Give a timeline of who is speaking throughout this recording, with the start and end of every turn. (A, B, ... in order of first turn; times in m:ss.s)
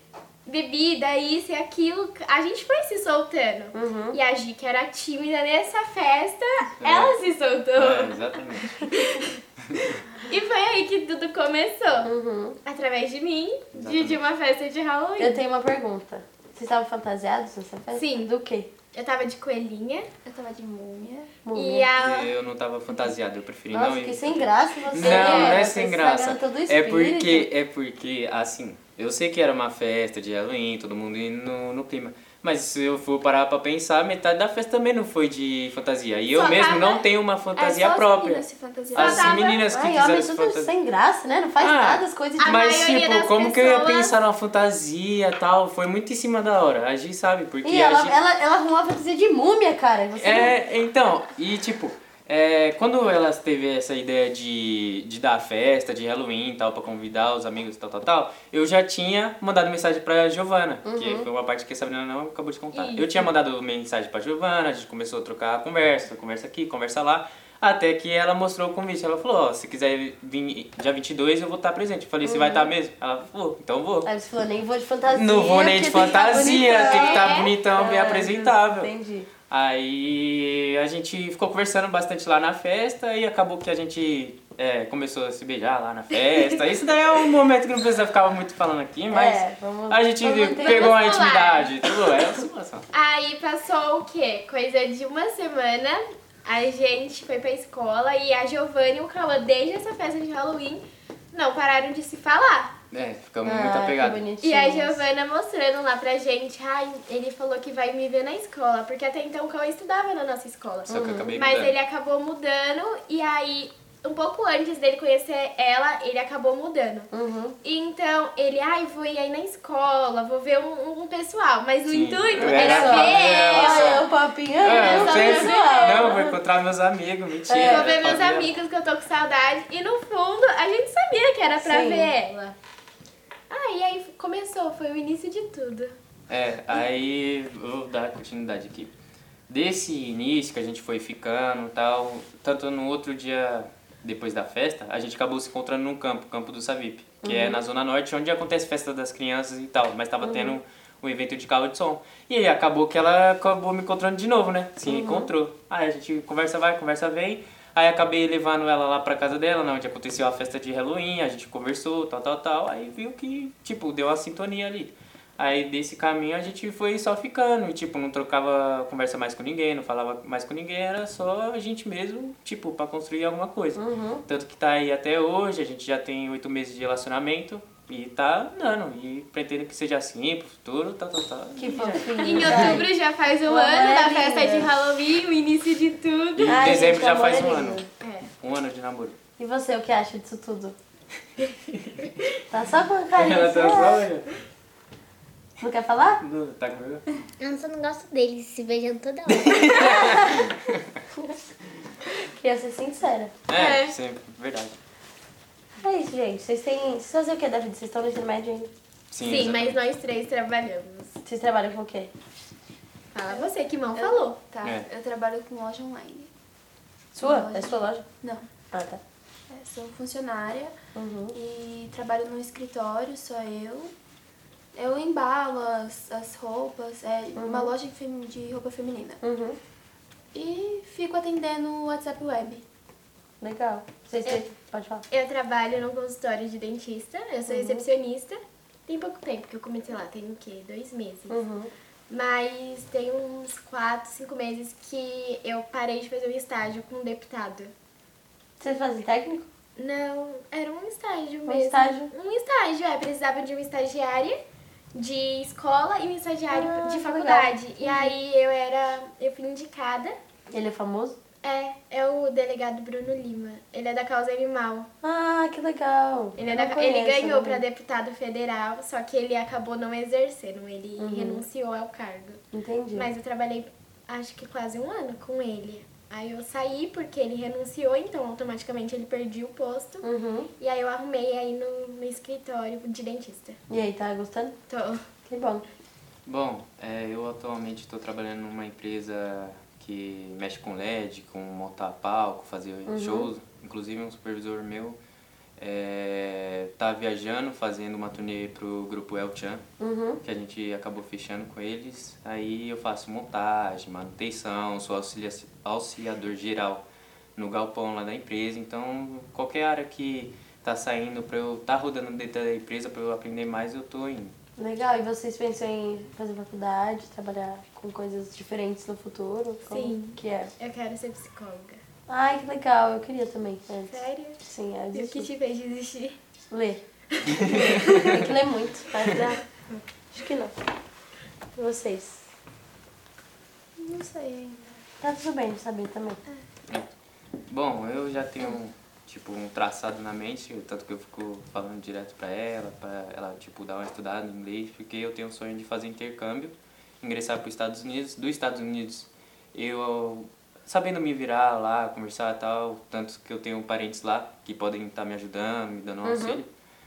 0:00.4-0:09.4 A
0:03.7-0:04.2 B
0:06.8-0:07.2 C
0:07.8-0:08.9 C
0:09.7-0:10.0 C
0:10.1-0:12.1 A
0:12.0-0:12.6 B
0:12.6-0:15.4 A
0:13.7-0:14.2 C
0:15.2-0:18.7 B
0:17.9-0:18.3 A
0:18.9-0:20.1 A
0:20.2-0:21.3 D
0:21.4-0:21.9 B
0:21.5-0:22.3 A
0:22.0-0:40.7 C
0:23.7-0:27.5 B
0:25.0-0:25.6 A
0:36.3-0:37.0 A
0:37.7-0:39.5 D
0:38.9-0:39.6 A
0:39.7-0:42.6 B
0:41.6-0:48.1 C
0:42.4-0:44.1 A
0:47.6-0:50.5 B
0:50.2-1:14.1 C
1:00.8-1:01.3 B
1:02.7-1:03.3 A
1:12.2-1:12.7 B
1:14.0-1:19.3 B
1:15.1-1:18.9 C
1:16.7-1:17.6 A
1:19.5-1:32.8 C
1:29.1-1:31.0 B
1:30.6-1:31.8 A
1:32.9-1:42.7 A
1:42.9-1:44.2 C
1:43.4-1:45.0 B
1:44.4-1:57.1 A
1:50.9-1:51.3 B
1:50.9-1:51.8 C
1:57.1-1:57.6 B
1:57.6-2:04.0 A
2:01.8-2:04.1 C
2:02.4-2:06.4 B
2:04.6-2:08.5 C
2:04.6-2:06.2 A
2:07.5-2:07.9 B
2:07.6-2:12.5 A
2:11.6-2:12.1 B
2:13.5-2:16.0 A
2:16.3-2:18.9 C
2:19.5-3:02.8 C
2:27.2-2:27.6 B
2:30.2-2:30.6 B
2:34.8-2:35.3 B
2:53.8-2:54.2 B
3:01.6-3:02.9 B
3:02.2-3:06.8 A
3:03.5-3:04.7 B
3:06.4-3:09.2 C
3:06.5-3:07.8 B
3:08.0-3:08.3 A
3:09.4-3:10.8 B
3:11.7-3:12.0 C
3:12.5-3:14.1 B
3:13.2-3:14.3 C
3:15.6-3:16.2 B
3:16.2-3:17.0 C
3:17.4-3:20.1 E
3:19.3-3:21.0 C
3:19.7-3:20.5 B
3:22.2-3:23.3 B
3:23.5-3:24.8 C
3:23.5-3:23.9 A
3:25.8-3:28.7 B
3:29.1-3:29.8 C
3:29.2-3:31.2 A
3:31.2-3:32.1 B
3:33.1-3:34.4 A
3:33.3-3:36.3 D
3:37.1-3:38.0 B
3:37.2-3:38.4 D
3:38.7-3:39.0 B
3:39.5-3:40.7 D
3:40.9-3:41.4 B
3:41.3-3:43.9 D
3:44.7-3:49.2 D
3:47.4-3:47.7 B
3:49.2-3:49.6 B
3:50.3-3:52.6 D
3:53.4-3:55.0 B
3:55.1-4:01.4 A
3:57.5-3:57.8 B
4:01.3-4:01.7 B
4:02.1-4:07.7 A
4:08.6-4:09.5 B
4:09.8-4:14.4 A
4:11.4-4:12.1 B
4:14.9-4:20.2 A
4:16.5-4:18.1 B
4:20.5-4:21.2 B
4:21.4-4:24.9 A
4:25.0-4:27.6 B
4:26.4-4:32.4 A
4:31.0-4:31.4 B
4:32.5-4:33.1 B
4:32.9-4:40.0 A
4:40.0-4:40.5 B
4:40.6-4:43.6 A
4:43.7-4:44.6 B
4:44.7-4:45.0 A
4:45.3-4:45.6 B
4:46.2-4:55.0 C
4:52.9-4:53.3 B
4:55.6-4:59.6 C
4:59.8-5:00.2 B
5:00.2-5:06.8 C
5:07.4-5:14.3 C
5:14.6-5:20.5 B
5:19.7-5:21.8 A
5:22.1-5:25.3 B
5:23.9-5:24.4 A
5:24.9-5:26.2 A
5:26.5-5:26.8 B
5:27.2-5:28.1 A
5:27.3-5:28.2 C
5:27.4-5:29.4 B
5:30.1-5:30.5 B
5:31.6-5:32.2 B
5:33.8-5:34.8 D
5:35.0-5:36.2 B
5:37.5-5:56.5 C
5:56.0-5:56.4 B